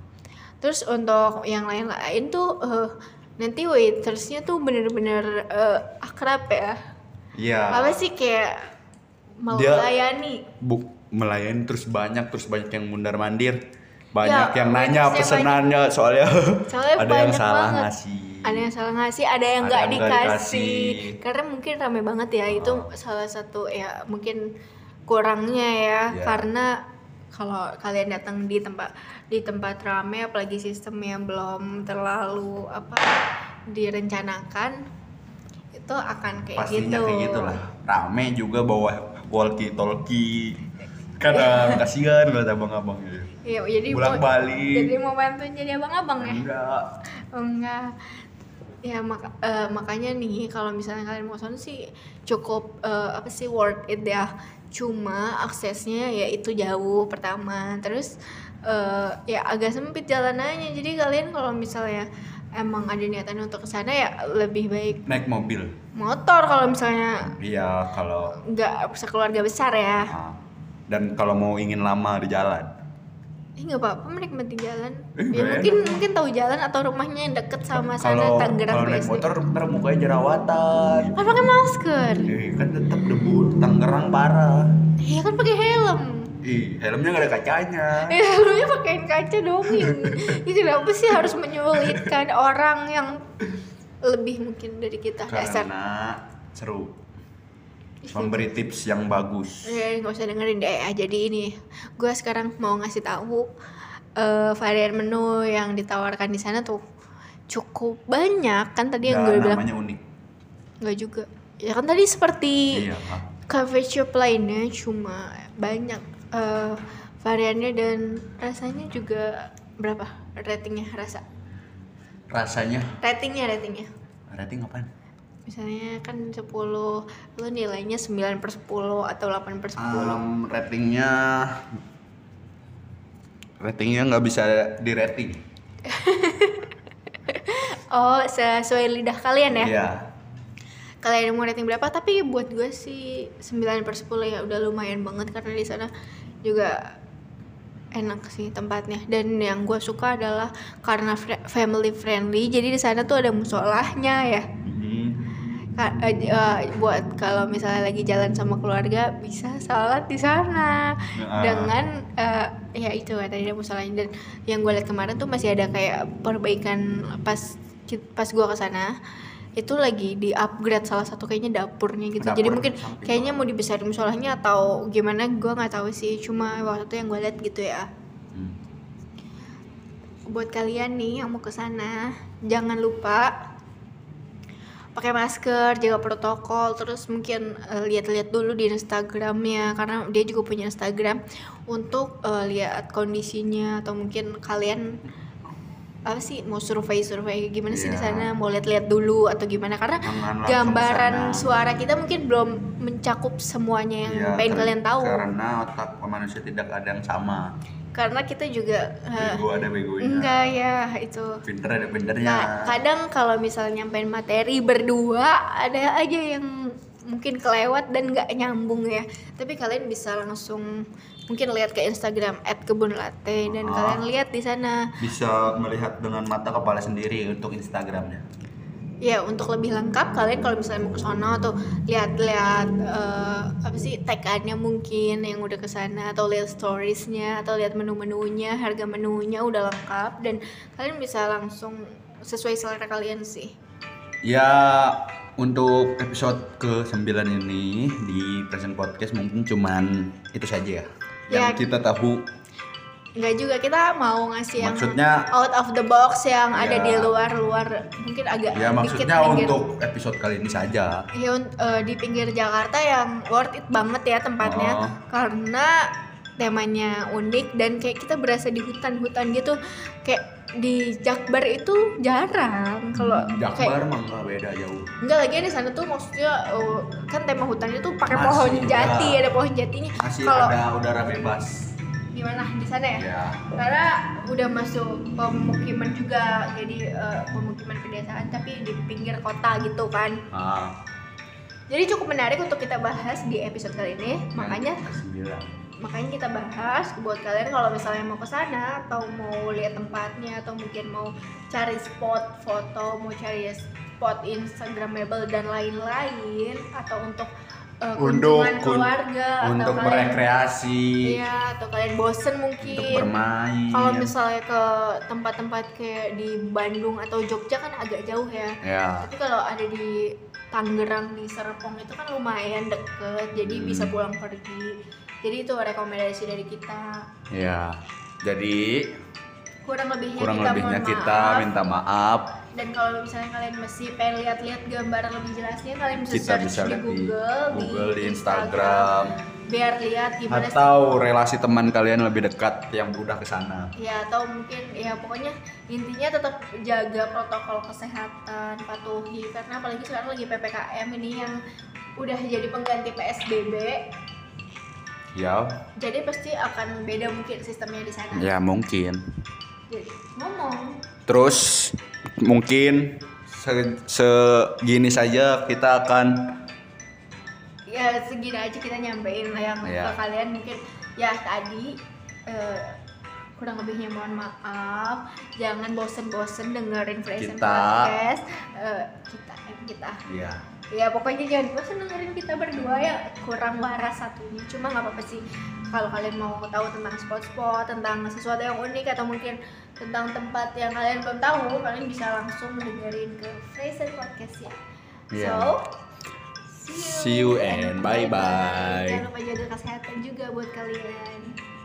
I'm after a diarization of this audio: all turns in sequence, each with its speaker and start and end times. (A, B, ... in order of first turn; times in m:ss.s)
0:00.6-0:06.8 A
0:07.4-0:08.0 B
0:07.7-0:08.7 A
0:09.4-0:10.4 A
0:09.5-0:09.9 B
0:10.6-0:13.6 B
0:14.1-0:18.7 B
0:14.2-0:15.6 A
0:16.7-0:17.9 A
0:18.4-0:24.4 A
0:19.6-0:21.2 B
0:22.5-0:22.9 B
0:25.1-0:26.7 A
0:26.1-0:26.4 B
0:27.3-0:34.8 A
0:35.7-0:37.6 A
0:36.6-0:40.6 B
0:41.2-0:43.3 B
0:41.3-0:41.8 A
0:43.4-0:46.4 A
0:43.9-0:44.9 B
0:46.2-0:46.9 B
0:47.3-0:48.0 A
0:48.8-0:58.1 A
0:58.7-1:02.1 A
1:02.6-1:05.1 A
1:05.1-1:05.7 B
1:06.0-1:07.3 A
1:07.3-1:08.4 B
1:08.3-1:10.1 A
1:10.1-1:12.7 B
1:13.6-1:19.3 A
1:15.2-1:16.0 B
1:18.0-1:21.2 B
1:21.2-1:22.3 A
1:22.3-1:24.7 B
1:25.0-1:26.3 A
1:26.4-1:28.2 B
1:28.0-1:33.2 A
1:29.7-1:30.4 B
1:31.7-1:32.0 B
1:34.0-1:35.7 A
1:35.3-1:37.0 B
1:38.0-1:38.5 A
1:38.1-1:39.8 B
1:39.7-1:43.5 A
1:44.2-1:46.8 A
1:47.5-1:49.6 A
1:49.0-1:50.0 B
1:50.8-1:52.8 A
1:52.7-1:53.3 B
1:53.5-2:01.2 A
2:02.3-2:03.0 B
2:03.0-2:03.9 A
2:04.3-2:04.9 B
2:05.5-2:10.2 A
2:09.8-2:11.8 B
2:13.6-2:15.4 B
2:15.8-2:16.8 A
2:17.3-2:19.7 A
2:19.5-2:20.0 B
2:21.0-2:25.9 A
2:26.4-2:26.8 A
2:28.0-2:34.4 A
2:34.6-2:35.3 B
2:35.8-2:48.9 A
2:41.2-2:41.8 B
2:49.6-2:57.9 A
2:52.2-2:53.5 B
3:00.3-3:03.3 A
3:05.0-3:15.0 A
3:16.1-3:25.2 A
3:17.7-3:18.3 B
3:20.0-3:21.4 B
3:24.1-3:27.5 B
3:27.9-3:29.4 A
3:29.2-3:30.5 B
3:30.0-3:31.4 A
3:31.4-3:32.7 B
3:32.2-3:36.5 A
3:37.1-3:40.7 A
3:41.3-3:44.9 A
3:43.5-3:44.0 B
3:45.0-3:48.3 B
3:49.0-4:03.5 A
4:04.2-4:12.3 B
4:11.3-4:11.6 A
4:13.2-4:19.6 A
4:14.6-4:15.3 B
4:16.5-4:17.2 B
4:18.5-4:21.0 B
4:21.1-4:25.8 A
4:24.4-4:25.0 B
4:26.4-4:33.8 A
4:32.9-4:34.9 B
4:35.0-4:40.6 A
4:38.1-4:39.2 B
4:40.0-4:41.6 B
4:42.1-4:50.2 A
4:43.0-4:43.5 B
4:50.3-4:50.8 B
4:51.7-4:54.9 A
4:54.4-4:55.6 B
4:55.8-5:07.3 A
5:07.8-5:10.2 A
5:08.0-5:08.9 B
5:09.4-5:11.2 B
5:11.0-5:13.1 A
5:12.6-5:14.1 B
5:13.7-5:20.0 A
5:18.6-5:19.1 B
5:20.5-5:27.0 A
5:23.4-5:24.0 B
5:27.3-5:29.0 B
5:29.6-5:31.5 A
5:30.2-5:32.4 B
5:32.5-5:38.9 A
5:36.0-5:39.2 B
5:39.5-5:40.7 A
5:40.3-5:43.7 B
5:43.8-5:51.4 A
5:52.0-5:53.9 A
5:55.1-5:55.6 B
5:55.8-5:58.3 A
5:58.1-5:59.0 B
5:59.7-6:00.8 A
6:01.1-6:06.4 B
6:07.7-6:12.8 A
6:09.6-6:10.0 B
6:13.4-6:20.0 A
6:17.2-6:17.9 B
6:20.1-6:20.4 B
6:20.7-6:34.6 A
6:35.1-6:35.5 B
6:35.1-6:35.7 A
6:36.5-6:41.4 A
6:36.7-6:39.0 B